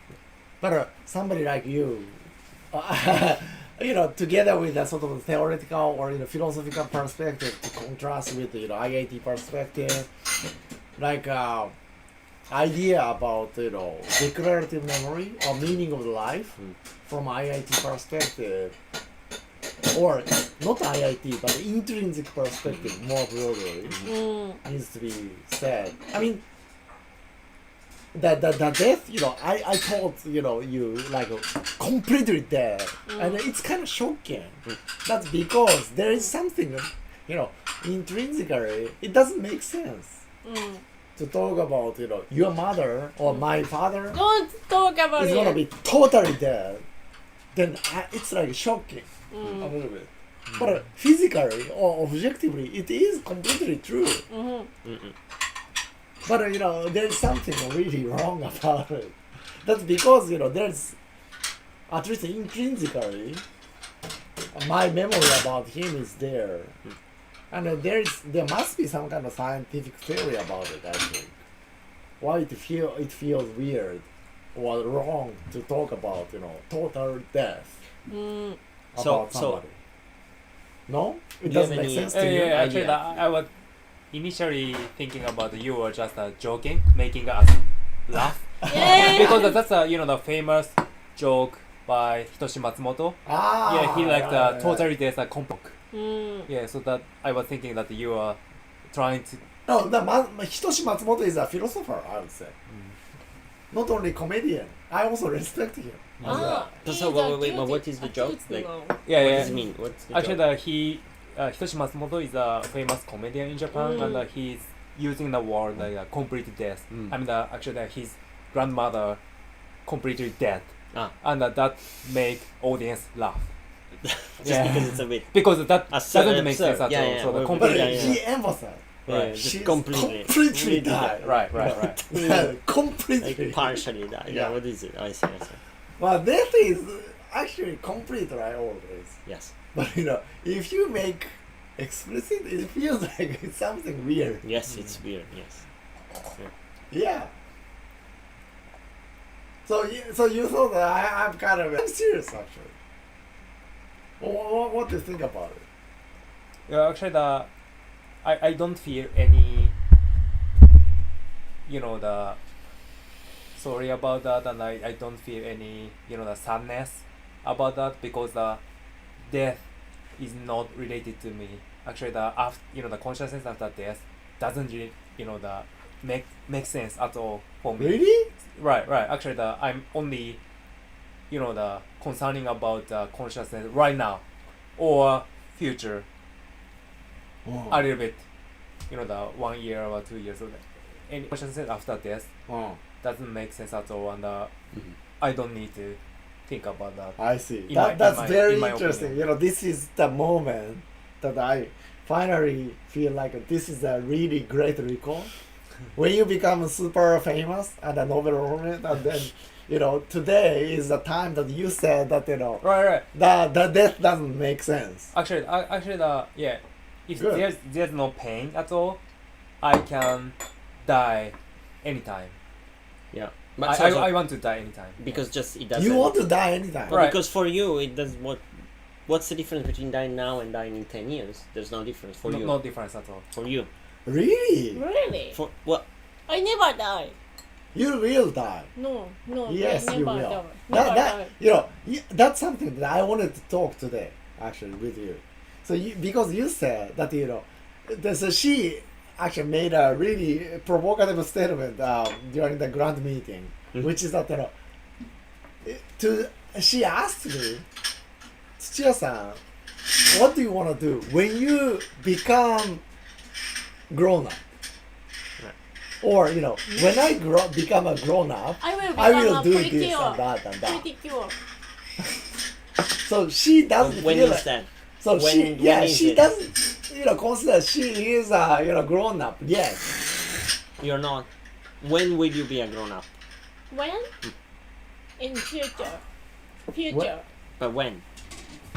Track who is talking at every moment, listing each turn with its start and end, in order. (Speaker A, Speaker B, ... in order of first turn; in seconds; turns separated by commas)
Speaker A: 0.6-10.1, Speaker A: 11.0-11.7, Speaker A: 12.5-18.7, Speaker A: 19.9-24.1, Speaker B: 24.1-24.6, Speaker A: 24.6-26.4, Speaker A: 28.1-40.2, Speaker B: 33.1-33.4, Speaker B: 40.4-40.8, Speaker A: 41.1-44.2, Speaker B: 44.1-45.6, Speaker A: 45.1-46.8, Speaker A: 47.5-54.2, Speaker B: 49.3-49.7, Speaker B: 54.3-54.7, Speaker C: 54.8-55.1, Speaker A: 56.2-61.0, Speaker A: 61.9-63.4, Speaker A: 64.5-66.7, Speaker A: 67.5-71.3, Speaker A: 72.2-77.8, Speaker B: 78.1-78.6, Speaker A: 78.9-79.8, Speaker C: 79.0-79.6, Speaker A: 80.9-82.6, Speaker C: 81.4-83.1, Speaker D: 82.1-83.5, Speaker D: 84.1-95.7, Speaker B: 88.6-89.6, Speaker A: 93.2-94.9, Speaker B: 95.9-96.5, Speaker D: 96.5-99.4, Speaker A: 99.7-102.5, Speaker A: 103.7-106.7, Speaker D: 106.2-106.5, Speaker B: 106.2-109.6, Speaker C: 106.8-110.5, Speaker D: 109.0-109.6, Speaker D: 110.1-119.2, Speaker B: 113.8-114.2, Speaker D: 119.8-120.7, Speaker D: 121.2-123.5, Speaker C: 124.0-125.3, Speaker D: 124.4-128.2, Speaker C: 125.9-128.2, Speaker A: 127.5-128.8, Speaker C: 129.1-132.6, Speaker D: 129.1-129.3, Speaker A: 129.3-134.5, Speaker D: 131.2-132.0, Speaker C: 133.2-135.6, Speaker A: 136.0-139.1, Speaker C: 139.2-139.5, Speaker A: 139.7-144.4, Speaker C: 144.4-145.6, Speaker A: 146.9-147.3, Speaker A: 149.7-152.7, Speaker A: 154.2-155.6, Speaker D: 156.7-157.5, Speaker D: 158.2-159.7, Speaker D: 161.7-162.4, Speaker D: 163.6-168.6, Speaker D: 169.2-169.6, Speaker D: 170.2-178.0, Speaker A: 177.8-178.3, Speaker D: 178.6-180.4, Speaker D: 181.3-184.2, Speaker D: 184.8-186.1, Speaker A: 187.4-187.8, Speaker D: 187.7-188.2, Speaker D: 188.9-192.3, Speaker A: 192.5-192.8, Speaker D: 193.0-194.5, Speaker D: 195.2-199.2, Speaker A: 197.2-205.3, Speaker A: 205.9-215.1, Speaker D: 212.6-213.1, Speaker D: 215.1-219.0, Speaker A: 217.2-217.4, Speaker D: 219.6-222.3, Speaker C: 223.1-224.3, Speaker D: 223.6-225.2, Speaker C: 225.0-226.2, Speaker A: 225.7-227.1, Speaker C: 226.9-228.4, Speaker D: 226.9-227.2, Speaker C: 229.1-232.6, Speaker D: 232.2-233.2, Speaker C: 233.3-233.7, Speaker A: 234.1-234.8, Speaker B: 234.7-235.4, Speaker C: 235.3-235.8, Speaker B: 236.3-237.1, Speaker A: 237.7-238.7, Speaker B: 238.8-241.3, Speaker A: 239.5-254.5, Speaker A: 255.6-257.6, Speaker A: 258.6-259.4, Speaker A: 260.1-262.8, Speaker A: 263.9-264.4, Speaker A: 266.0-270.8, Speaker B: 268.6-271.3, Speaker A: 272.8-274.5, Speaker C: 273.8-276.3, Speaker A: 275.0-280.1, Speaker C: 280.8-281.3, Speaker C: 281.8-283.1, Speaker B: 283.7-284.1, Speaker B: 285.2-286.0, Speaker B: 286.7-287.2, Speaker C: 287.6-288.0